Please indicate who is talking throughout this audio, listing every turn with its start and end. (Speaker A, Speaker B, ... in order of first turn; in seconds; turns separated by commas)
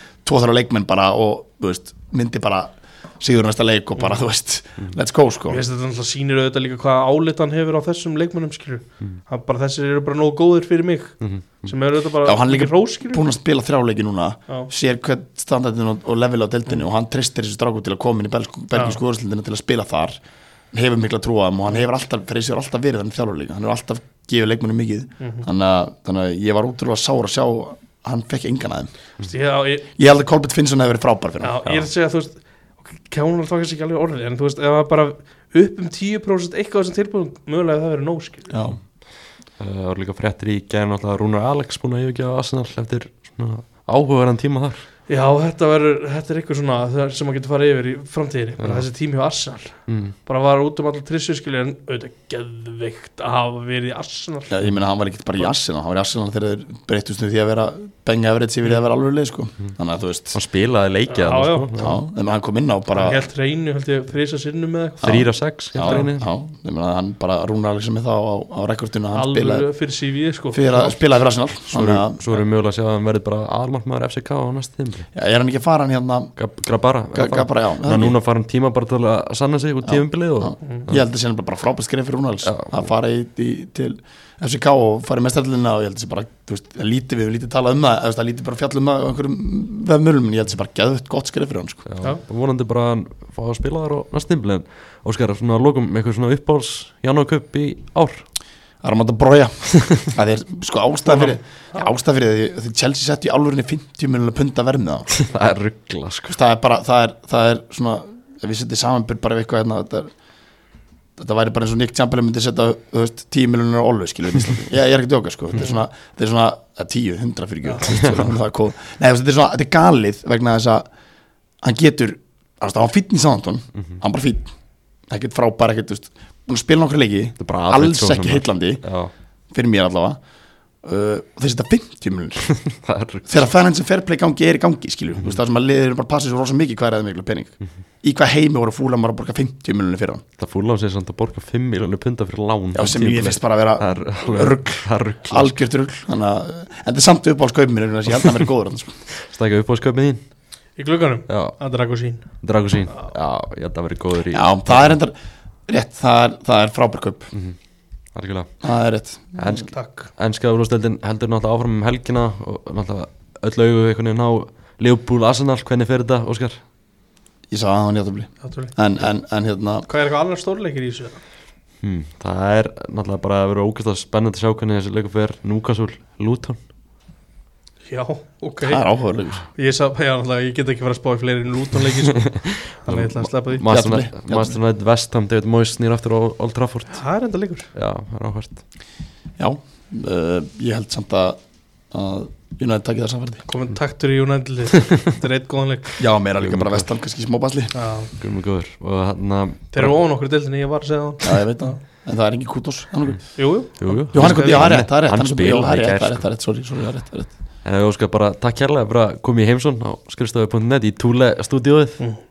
Speaker A: 0.2-5.6, Speaker B: 5.5-13.2, Speaker C: 11.2-11.7, Speaker A: 12.2-20.2, Speaker A: 20.7-28.9, Speaker B: 25.2-25.4, Speaker B: 29.3-29.9, Speaker A: 30.0-31.6, Speaker B: 31.4-38.5, Speaker A: 38.5-38.8, Speaker C: 39.6-44.8, Speaker B: 45.1-54.6, Speaker C: 48.6-48.9, Speaker C: 49.9-50.1, Speaker A: 54.5-60.4, Speaker C: 60.3-61.9, Speaker B: 61.1-61.8, Speaker A: 61.8-63.2, Speaker B: 62.9-65.2, Speaker C: 65.0-66.3, Speaker A: 65.0-69.7, Speaker B: 65.8-66.1, Speaker B: 69.1-71.0, Speaker A: 70.5-72.2, Speaker C: 71.7-75.1, Speaker A: 75.1-76.3, Speaker C: 76.4-81.0, Speaker A: 77.1-78.2, Speaker A: 79.8-91.8, Speaker C: 82.4-82.8, Speaker C: 91.9-98.2, Speaker A: 98.8-105.1, Speaker C: 99.7-100.1, Speaker B: 101.1-101.9, Speaker C: 105.1-106.4, Speaker A: 106.3-110.1, Speaker A: 111.2-120.9, Speaker B: 117.7-117.9, Speaker C: 117.9-118.3, Speaker A: 121.6-124.5, Speaker A: 125.1-128.8, Speaker C: 127.4-129.1, Speaker A: 129.5-130.2, Speaker A: 130.8-132.5, Speaker C: 132.5-133.4, Speaker A: 133.3-140.2, Speaker C: 140.4-145.6, Speaker A: 142.7-148.9, Speaker C: 149.2-150.2, Speaker B: 150.8-152.3, Speaker C: 151.3-151.6, Speaker C: 152.3-155.0, Speaker A: 154.3-155.1, Speaker A: 155.7-157.3, Speaker C: 158.1-158.5, Speaker A: 158.6-159.5, Speaker C: 159.4-166.6, Speaker B: 159.7-160.1, Speaker A: 167.5-169.8, Speaker B: 168.4-168.8, Speaker B: 169.8-171.2, Speaker C: 171.8-176.6, Speaker B: 177.9-178.8, Speaker A: 178.6-179.4, Speaker B: 179.5-182.3, Speaker C: 182.1-187.0, Speaker B: 182.8-183.6, Speaker A: 183.6-184.6, Speaker B: 186.9-187.7, Speaker C: 187.7-188.6, Speaker A: 189.4-191.4, Speaker A: 191.9-193.4, Speaker B: 193.4-196.0, Speaker A: 196.0-197.7, Speaker C: 196.4-196.9, Speaker B: 197.7-198.1, Speaker C: 198.2-199.9, Speaker B: 199.7-201.8, Speaker A: 201.2-203.4, Speaker B: 203.3-204.7, Speaker C: 203.8-206.2, Speaker A: 204.1-207.3, Speaker C: 207.6-212.0